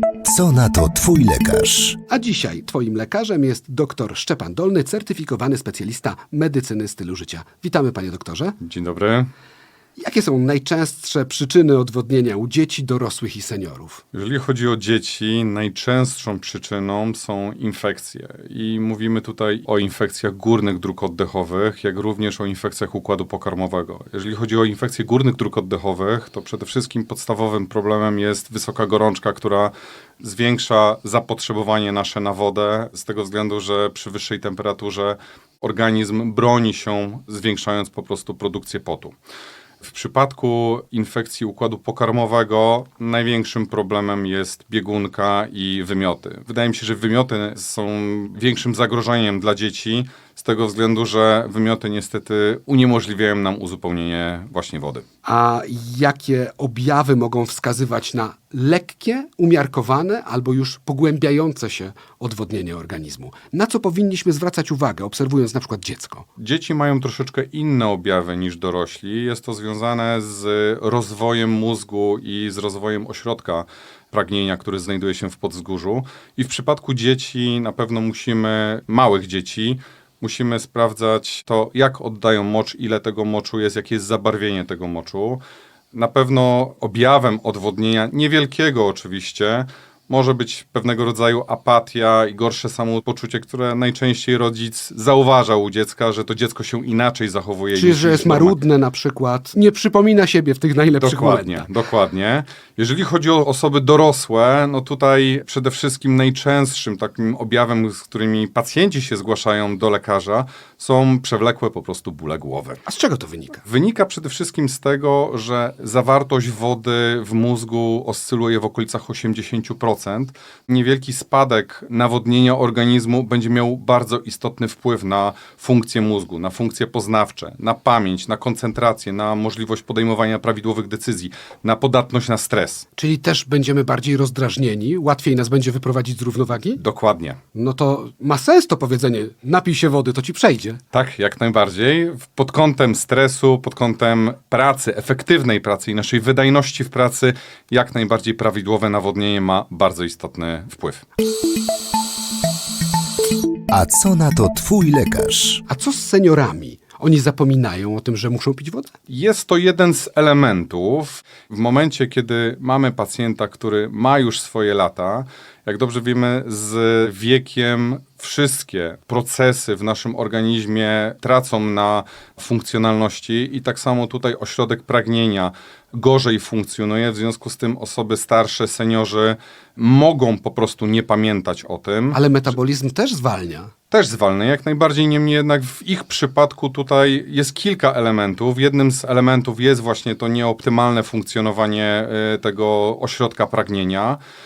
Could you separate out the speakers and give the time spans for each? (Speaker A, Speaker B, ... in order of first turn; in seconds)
Speaker A: 0.2-2.0, 153.7-155.6
Speaker B: 2.1-8.6, 10.0-14.0, 55.2-66.3, 97.7-101.7, 112.9-113.6, 133.0-136.8, 137.5-140.8, 155.7-158.9, 182.1-183.7
Speaker C: 8.6-9.3, 14.1-39.2, 39.8-55.0, 66.4-98.6, 101.0-112.8, 113.6-132.9, 136.8-137.4, 140.9-151.0, 159.1-182.3, 183.9-194.2